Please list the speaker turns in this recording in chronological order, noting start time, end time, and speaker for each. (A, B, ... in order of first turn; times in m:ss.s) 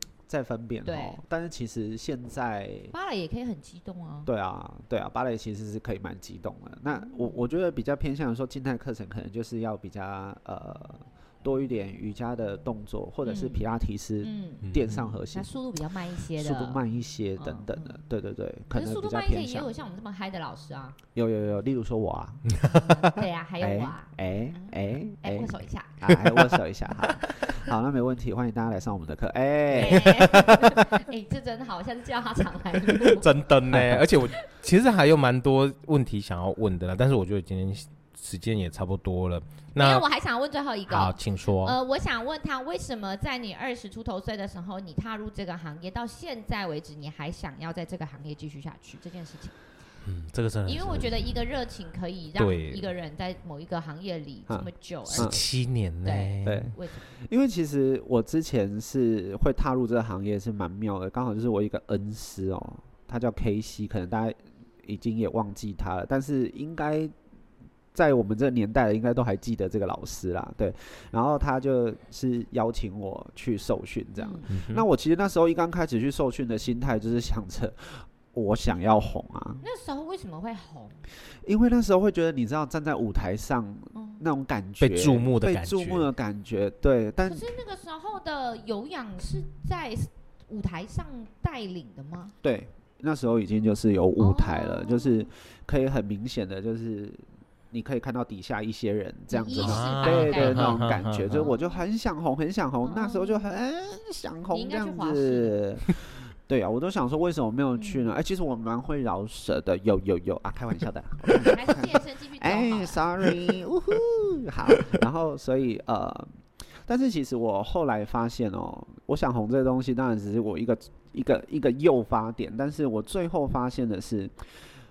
0:00.3-0:02.9 A
0:00.8-0:01.2 B
0:02.9-0:04.3 B
0:04.3-0:15.5 A
0:07.0-0:07.4 B
0:13.2-0:13.6 B
0:14.2-0:14.7 B
0:14.6-0:15.2 C
0:15.3-0:16.8 B
0:16.4-0:19.7 A
0:17.4-0:18.0 B
0:18.7-0:21.0 B
0:21.2-0:22.6 A
0:22.5-0:22.9 C
0:22.6-0:26.0 B
0:23.6-0:30.6 A
0:26.1-0:26.6 C
0:29.7-0:33.3 B
0:29.8-0:30.8 C
0:32.9-0:40.1 C
0:33.7-0:34.1 A
0:39.8-0:49.5 B
0:40.9-0:41.8 C
0:50.0-0:51.2 C
0:50.7-0:55.4 B
0:52.4-0:52.9 C
0:54.5-0:55.4 A
0:55.1-0:56.7 C
0:56.0-0:57.1 B
0:56.4-1:07.2 A
1:07.9-1:19.6 A
1:14.2-1:14.5 B
1:14.5-1:14.8 C
1:19.6-1:21.0 B
1:21.4-1:27.4 A
1:24.0-1:24.2 B
1:24.8-1:26.1 C
1:27.2-1:32.3 B
1:32.4-1:56.3 A
1:34.2-1:35.2 B
1:39.3-1:40.8 B
1:39.6-1:41.5 C
1:42.8-1:43.5 B
1:44.5-1:45.6 B
1:47.8-1:48.1 B
1:51.3-1:53.1 B
1:56.8-2:04.4 A